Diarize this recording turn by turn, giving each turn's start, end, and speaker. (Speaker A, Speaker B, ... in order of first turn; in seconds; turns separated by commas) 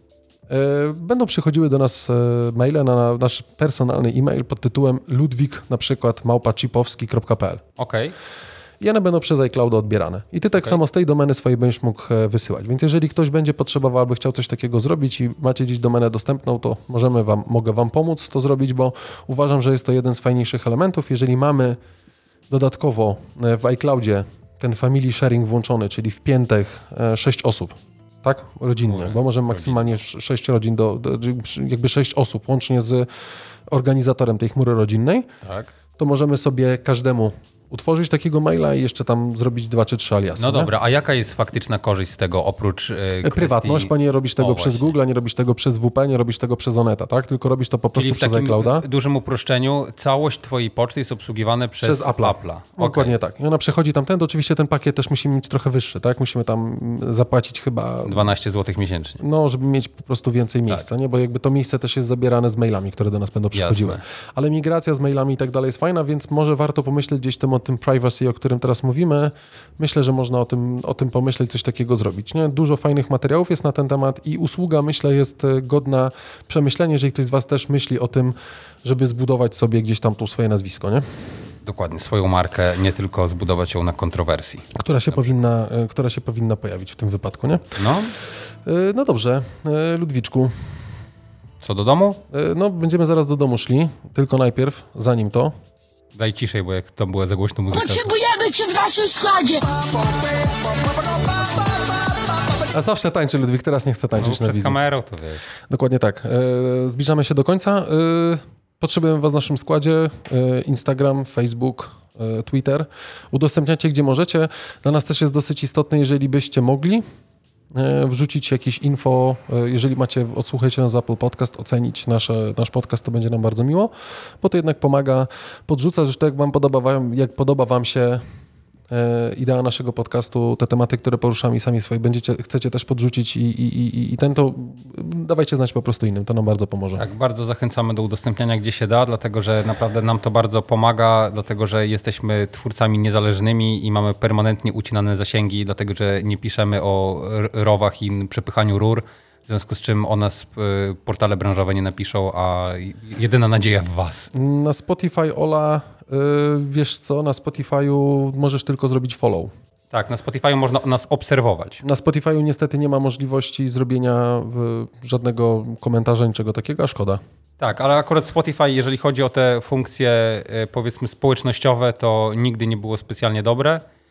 Speaker A: 0.5-7.6, Speaker B: 7.8-8.1, Speaker A: 8.8-21.8, Speaker A: 22.5-33.1, Speaker B: 28.9-29.9, Speaker A: 33.7-35.3, Speaker B: 35.4-35.7, Speaker A: 36.0-40.7, Speaker B: 40.4-44.9, Speaker A: 43.2-48.9, Speaker B: 47.9-53.1, Speaker A: 51.8-58.3, Speaker B: 58.0-59.2, Speaker A: 59.2-81.0, Speaker B: 63.5-64.0, Speaker B: 81.6-85.4, Speaker A: 84.7-87.8, Speaker B: 87.8-88.1, Speaker A: 88.6-90.5, Speaker B: 91.6-92.2, Speaker A: 92.3-95.5, Speaker B: 96.1-98.1, Speaker C: 97.7-100.1, Speaker A: 102.7-104.8, Speaker B: 104.1-105.4, Speaker A: 105.7-117.0, Speaker A: 117.7-128.2, Speaker A: 128.9-137.0, Speaker B: 136.9-154.3, Speaker A: 154.3-159.5, Speaker B: 159.9-161.8, Speaker A: 161.8-167.2, Speaker B: 167.6-173.8